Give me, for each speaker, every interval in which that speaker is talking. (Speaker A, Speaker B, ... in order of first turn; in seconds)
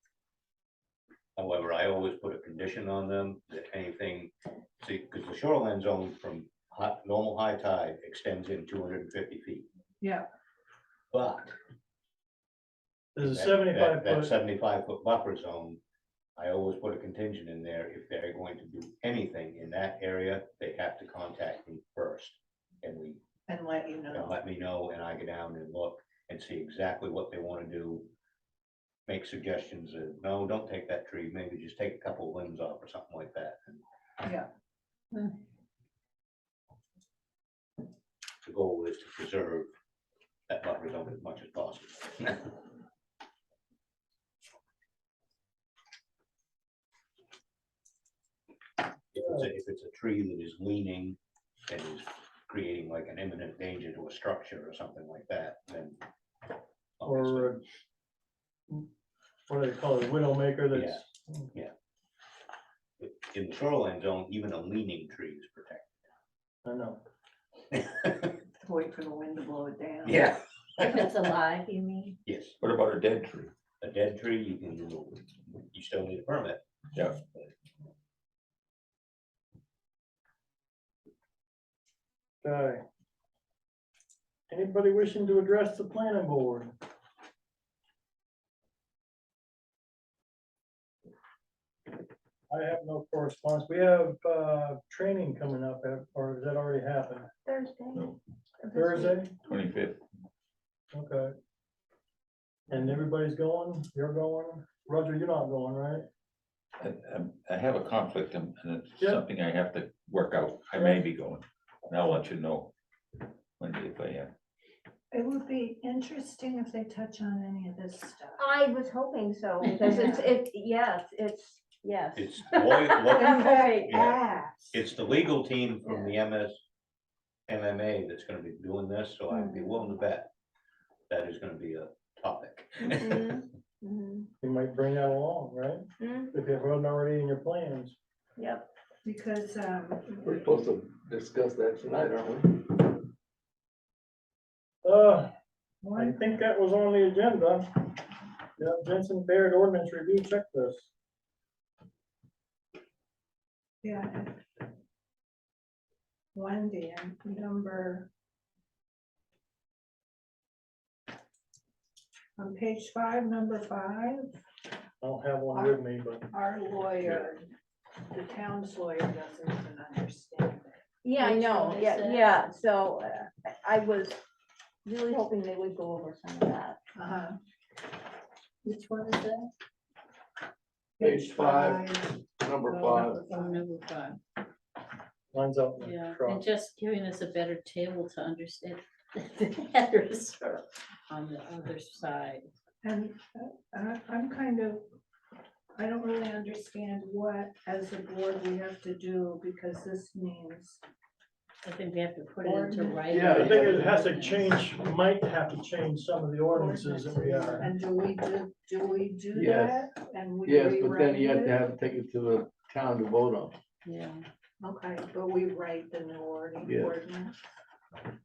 Speaker A: 1.4-9.7, 11.1-11.6, 13.3-15.8, 16.4-23.2, 24.1-28.1, 29.1-33.8, 38.4-39.7, 40.5-42.7, 49.1-56.0, 57.0-57.6, 60.7-61.0, 63.0-66.0, 67.8-68.1, 70.0-71.4, 72.3-72.6, 73.8-76.6, 122.2-124.2, 124.7-126.6, 127.5-130.3, 131.1-133.4
Speaker B: 10.0-10.3, 23.5-24.4, 34.2-34.5, 68.6-70.3, 115.1-118.4, 119.9-120.2, 123.0-124.8, 139.0-140.5, 145.8-146.4, 153.8-154.4, 156.3-158.1, 162.4-164.4, 165.5-167.5, 168.1-170.8, 177.0-177.4, 181.0-183.6, 192.8-194.9, 195.8-200.8, 202.4-203.3, 206.5-211.6, 214.6-217.3
Speaker C: 13.2-14.3, 57.0-57.6, 59.5-61.5, 66.6-67.0, 82.4-82.8, 84.5-86.7, 92.5-97.3, 98.7-99.3, 100.9-101.3, 102.7-106.0, 134.4-138.0, 144.8-145.3, 146.0-147.8, 148.6-150.9, 165.0-166.3, 185.3-186.4, 203.3-207.7
Speaker D: 72.6-73.5, 77.0-77.2, 99.4-100.0, 106.8-112.7, 113.6-114.3
Speaker E: 97.5-98.1, 98.6-99.2, 118.4-124.2, 129.3-129.8, 132.9-134.2, 136.0-136.3, 138.4-138.6, 171.0-174.2, 174.9-176.8
Speaker F: 140.2-142.7, 181.0-181.9, 182.4-183.2, 203.1-203.8, 209.3-209.9, 210.4-213.6, 216.7-217.0
Speaker G: 171.2-172.4, 178.7-179.5, 183.3-184.2, 185.8-192.5, 201.6-204.5, 213.8-214.3